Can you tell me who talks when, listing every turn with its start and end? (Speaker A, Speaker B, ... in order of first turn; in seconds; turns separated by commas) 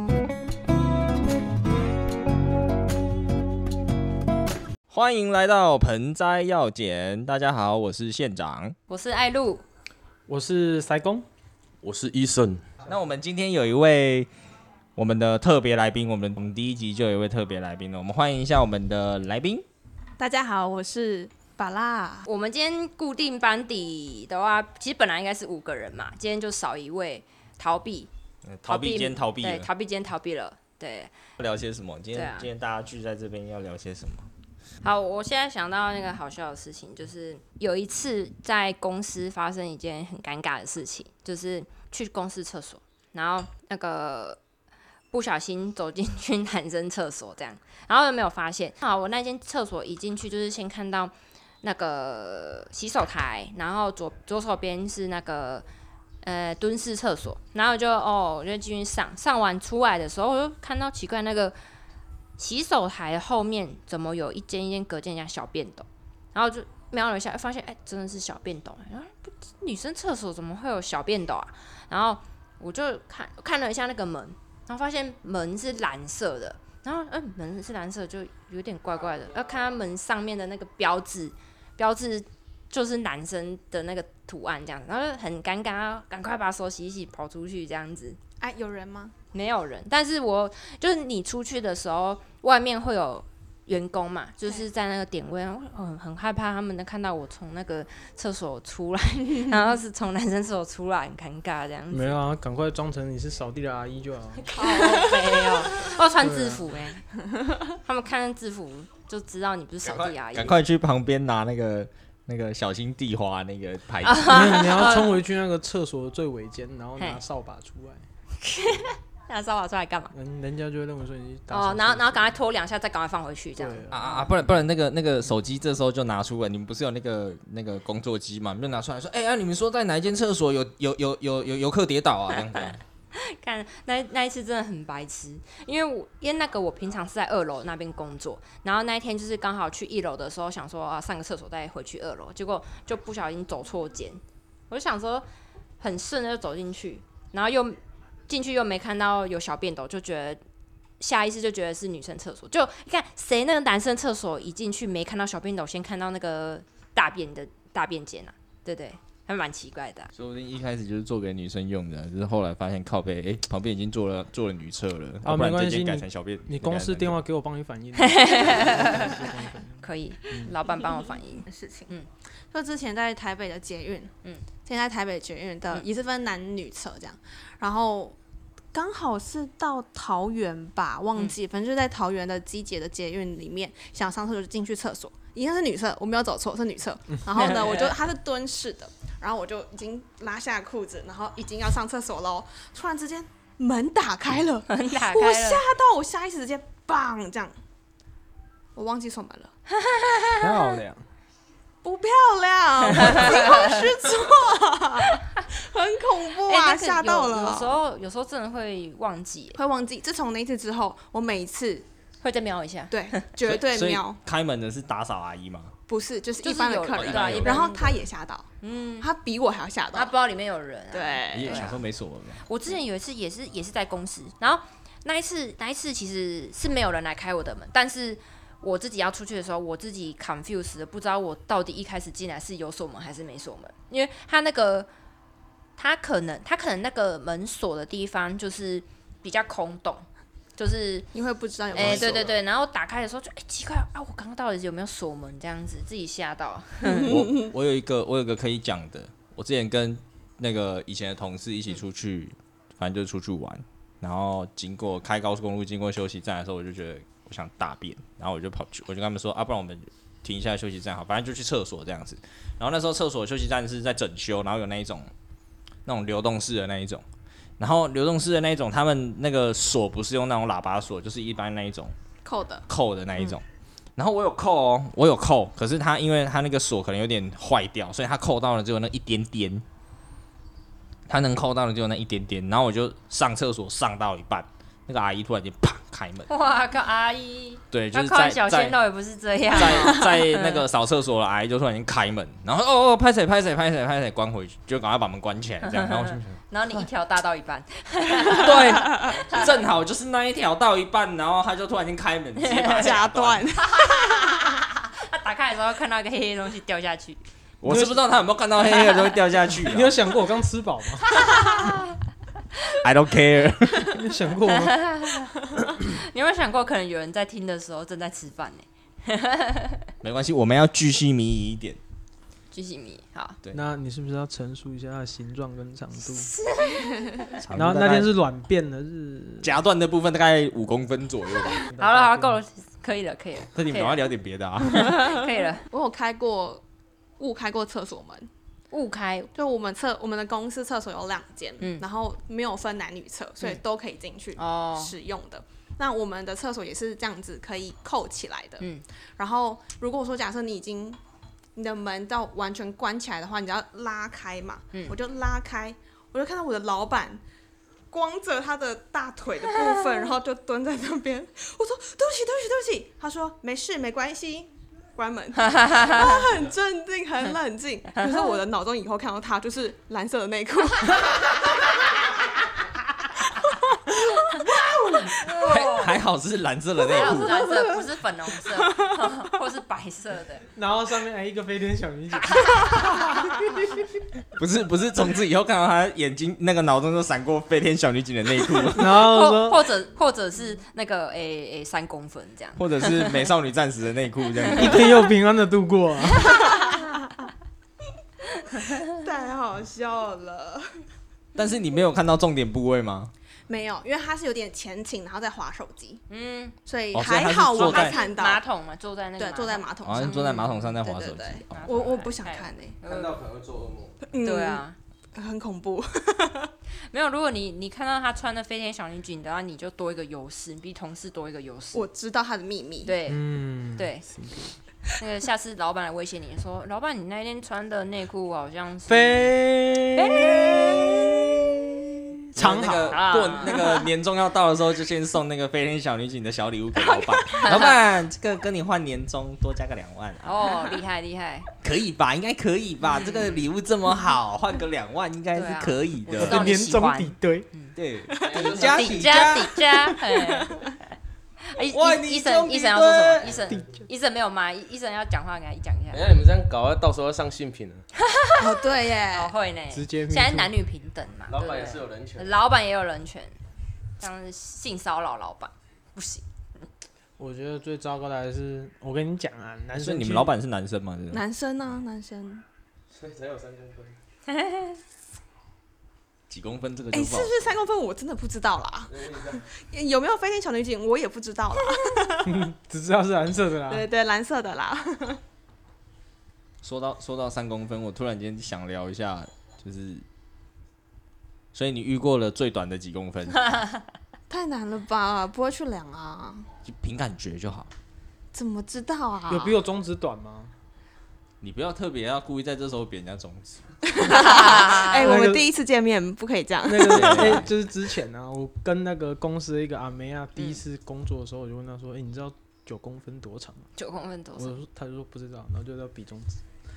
Speaker A: 4.9-8.7, Speaker B: 8.9-9.6, Speaker C: 10.3-11.2, Speaker D: 11.8-12.7, Speaker A: 12.8-14.3, Speaker A: 14.9-19.6, Speaker E: 20.2-22.3, Speaker B: 22.2-28.1, Speaker A: 28.4-29.7, Speaker B: 28.7-31.1, Speaker A: 31.4-34.3, Speaker B: 32.1-32.5, Speaker B: 34.8-44.4, Speaker B: 45.1-55.6, Speaker B: 56.2-61.5, Speaker B: 62.4-88.2, Speaker E: 88.4-89.1, Speaker B: 89.3-102.2, Speaker C: 101.9-104.5, Speaker B: 104.5-107.0, Speaker E: 104.5-105.9, Speaker C: 106.2-106.7, Speaker B: 107.8-110.6, Speaker A: 109.8-114.9, Speaker B: 114.0-115.2, Speaker C: 114.2-118.0, Speaker B: 118.4-120.1, Speaker C: 120.1-122.3, Speaker B: 121.5-123.9, Speaker C: 123.6-124.2, Speaker A: 123.9-132.8, Speaker B: 132.5-145.2, Speaker B: 145.8-147.8, Speaker B: 148.3-150.4, Speaker B: 151.0-160.1, Speaker A: 160.1-167.2, Speaker C: 165.2-170.5, Speaker B: 167.9-172.1, Speaker E: 171.5-171.9, Speaker E: 172.5-174.1, Speaker E: 174.6-178.2, Speaker E: 178.7-197.5, Speaker B: 187.3-187.9, Speaker B: 194.7-195.6, Speaker E: 198.8-199.5, Speaker B: 199.8-200.7, Speaker C: 200.4-201.0, Speaker E: 201.8-207.8, Speaker B: 203.0-203.8, Speaker B: 206.4-209.6, Speaker E: 209.6-211.8, Speaker B: 212.2-213.2, Speaker E: 212.9-214.2, Speaker A: 213.4-215.7, Speaker E: 215.9-218.5, Speaker B: 216.4-218.0, Speaker A: 216.9-217.8, Speaker B: 218.6-219.1, Speaker E: 219.0-220.1, Speaker B: 219.9-221.8, Speaker E: 220.9-221.8, Speaker A: 221.3-222.4, Speaker B: 222.4-234.9, Speaker B: 235.8-240.1, Speaker B: 240.6-241.1, Speaker E: 241.1-242.3, Speaker B: 241.7-247.1, Speaker A: 241.7-242.2, Speaker E: 246.8-247.3, Speaker A: 247.0-265.1, Speaker A: 265.9-267.0, Speaker A: 267.6-271.9, Speaker E: 272.2-272.6, Speaker A: 272.7-273.4, Speaker A: 274.0-279.6, Speaker A: 281.1-286.3, Speaker B: 286.3-290.6, Speaker A: 287.7-288.8, Speaker A: 289.5-296.4, Speaker B: 295.6-299.5, Speaker A: 298.3-303.5, Speaker E: 298.8-299.1, Speaker B: 302.4-302.9, Speaker E: 302.7-304.4, Speaker B: 303.7-307.2, Speaker A: 307.6-309.9, Speaker C: 307.6-308.0, Speaker C: 309.5-311.2, Speaker B: 311.1-311.9, Speaker A: 312.7-313.9, Speaker C: 313.8-315.1, Speaker B: 314.5-319.9, Speaker A: 320.0-321.8, Speaker B: 322.5-323.4, Speaker C: 323.5-326.3, Speaker B: 326.1-327.3, Speaker A: 327.3-328.1, Speaker C: 327.5-329.5, Speaker A: 329.4-331.6, Speaker C: 331.7-332.4, Speaker B: 331.8-334.0, Speaker A: 333.5-335.0, Speaker B: 334.6-335.7, Speaker E: 335.7-336.6, Speaker E: 337.2-338.3, Speaker B: 338.7-339.3, Speaker E: 339.3-348.6, Speaker B: 344.4-344.9, Speaker E: 349.2-351.0, Speaker E: 351.6-357.2, Speaker E: 357.9-371.8, Speaker B: 365.5-366.2, Speaker E: 373.9-375.4, Speaker B: 375.2-375.9, Speaker A: 375.4-377.4, Speaker B: 376.9-380.5, Speaker E: 377.4-377.8, Speaker C: 380.5-383.9, Speaker B: 382.2-383.0, Speaker A: 384.4-388.9, Speaker C: 388.7-389.6, Speaker B: 389.0-393.1, Speaker A: 392.6-395.0, Speaker C: 394.5-396.4, Speaker E: 396.4-396.9, Speaker E: 398.8-400.8, Speaker A: 401.3-403.1, Speaker E: 403.5-406.0, Speaker B: 406.1-406.6, Speaker E: 406.6-408.4, Speaker A: 406.9-408.0, Speaker B: 407.6-410.5, Speaker E: 409.2-412.8, Speaker A: 409.8-411.6, Speaker B: 411.5-413.2, Speaker D: 412.8-414.0, Speaker E: 414.1-414.6, Speaker B: 414.2-414.8, Speaker E: 415.1-416.5, Speaker B: 416.9-421.9, Speaker E: 421.7-422.9, Speaker B: 422.8-423.2, Speaker C: 423.1-424.6, Speaker B: 423.7-424.0, Speaker B: 425.0-429.4, Speaker C: 428.9-433.1, Speaker B: 429.9-430.8, Speaker A: 432.3-440.3, Speaker B: 432.9-433.7, Speaker E: 436.9-437.5, Speaker B: 437.3-437.8, Speaker B: 440.2-441.5, Speaker A: 441.6-446.4, Speaker B: 442.9-443.5, Speaker B: 445.3-447.7, Speaker C: 446.1-447.5, Speaker A: 447.8-449.5, Speaker E: 448.1-448.4, Speaker D: 448.2-449.4, Speaker B: 448.7-450.6, Speaker E: 450.1-450.7, Speaker B: 451.4-456.1, Speaker A: 451.7-453.3, Speaker D: 452.9-453.3, Speaker C: 453.5-453.8, Speaker D: 455.9-457.8, Speaker B: 458.0-463.3, Speaker E: 458.4-459.3, Speaker C: 459.7-460.5, Speaker D: 461.3-462.3, Speaker B: 464.0-466.2, Speaker C: 467.2-470.3, Speaker A: 469.8-471.2, Speaker E: 471.1-472.4, Speaker D: 472.9-474.0, Speaker B: 474.3-474.8, Speaker A: 476.3-477.5, Speaker E: 476.9-482.4, Speaker D: 478.9-479.4, Speaker C: 482.2-483.9, Speaker E: 483.7-485.2, Speaker A: 486.6-490.0, Speaker A: 491.5-493.6, Speaker E: 494.3-496.5, Speaker A: 496.6-497.7, Speaker E: 498.3-499.6, Speaker C: 499.3-500.5, Speaker A: 501.4-503.6, Speaker E: 503.9-507.4, Speaker B: 504.0-505.1, Speaker C: 504.9-505.5, Speaker C: 506.6-513.7, Speaker A: 506.8-507.4, Speaker B: 513.8-514.5, Speaker C: 514.4-516.4